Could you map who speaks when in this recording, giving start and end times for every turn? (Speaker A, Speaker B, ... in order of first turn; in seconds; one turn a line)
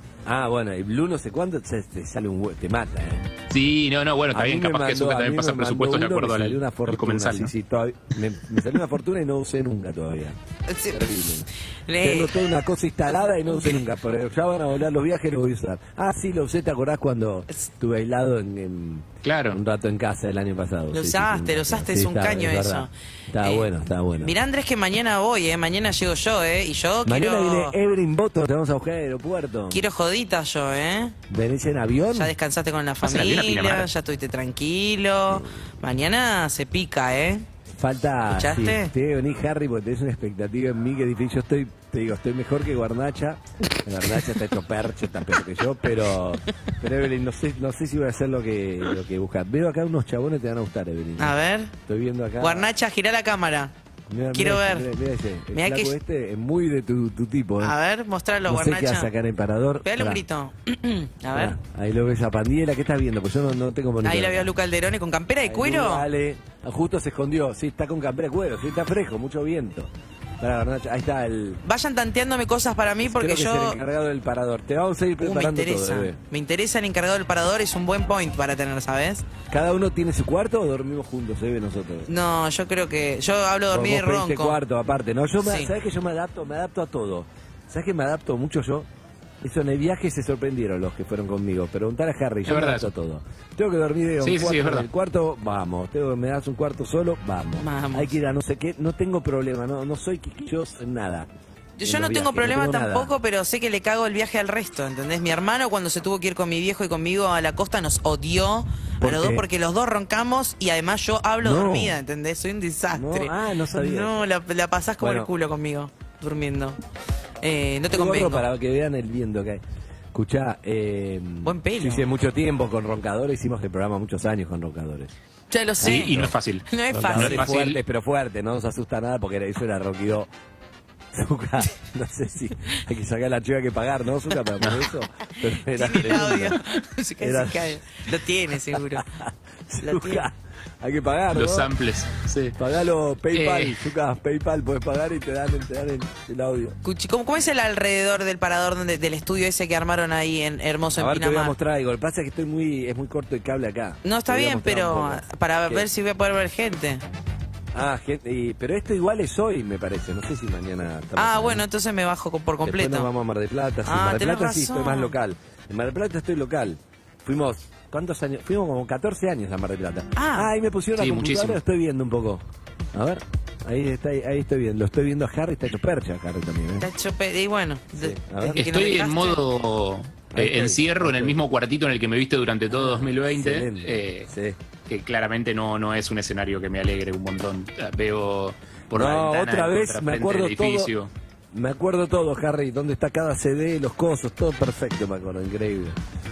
Speaker A: 0.2-3.3
Speaker B: 3.5-7.5
Speaker A: 4.3-10.3
Speaker C: 10.7-11.0
Speaker A: 10.9-11.5
Speaker C: 11.9-12.4
Speaker A: 12.0-24.3
Speaker B: 19.2-19.6
Speaker C: 20.9-27.8
Speaker A: 27.0-29.8
Speaker C: 29.7-31.1
Speaker A: 31.3-32.3
Speaker C: 32.1-37.5
Speaker B: 33.0-33.9
Speaker A: 37.7-52.7
Speaker C: 38.3-38.9
Speaker C: 51.2-51.7
Speaker C: 52.4-53.7
Speaker A: 54.1-57.8
Speaker C: 54.3-54.9
Speaker C: 55.5-55.9
Speaker C: 57.6-59.1
Speaker A: 58.5-60.2
Speaker C: 59.8-61.6
Speaker A: 61.3-64.5
Speaker C: 64.0-66.1
Speaker A: 65.4-71.6
Speaker C: 71.6-73.8
Speaker A: 73.0-76.2
Speaker C: 75.2-79.2
Speaker A: 79.5-82.1
Speaker C: 82.1-84.6
Speaker A: 83.7-88.9
Speaker C: 85.4-85.7
Speaker A: 89.4-101.3
Speaker B: 92.5-92.9
Speaker B: 94.2-94.8
Speaker C: 97.6-98.1
Speaker C: 101.8-116.8
Speaker A: 101.8-103.1
Speaker A: 109.0-109.5
Speaker A: 111.4-112.0
Speaker A: 112.9-114.2
Speaker A: 115.0-115.3
Speaker C: 117.4-118.4
Speaker A: 117.9-119.6
Speaker A: 120.1-125.1
Speaker C: 121.4-122.1
Speaker C: 125.5-127.5
Speaker A: 125.8-126.3
Speaker B: 125.8-127.8
Speaker A: 126.9-130.3
Speaker A: 131.1-136.6
Speaker C: 135.7-139.0
Speaker A: 137.2-137.8
Speaker A: 138.7-141.7
Speaker C: 139.8-140.3
Speaker B: 141.3-142.6
Speaker A: 142.6-146.8
Speaker B: 143.3-143.8
Speaker C: 146.8-151.5
Speaker A: 150.9-155.9
Speaker C: 154.0-157.0
Speaker A: 157.7-161.6
Speaker C: 161.2-163.1
Speaker A: 162.6-176.9
Speaker C: 163.8-165.1
Speaker C: 170.2-170.5
Speaker B: 170.9-171.6
Speaker C: 176.8-179.4
Speaker A: 177.9-178.6
Speaker B: 178.6-184.3
Speaker A: 180.3-181.4
Speaker A: 182.7-184.6
Speaker B: 184.9-191.1
Speaker A: 188.9-190.9
Speaker A: 191.5-196.0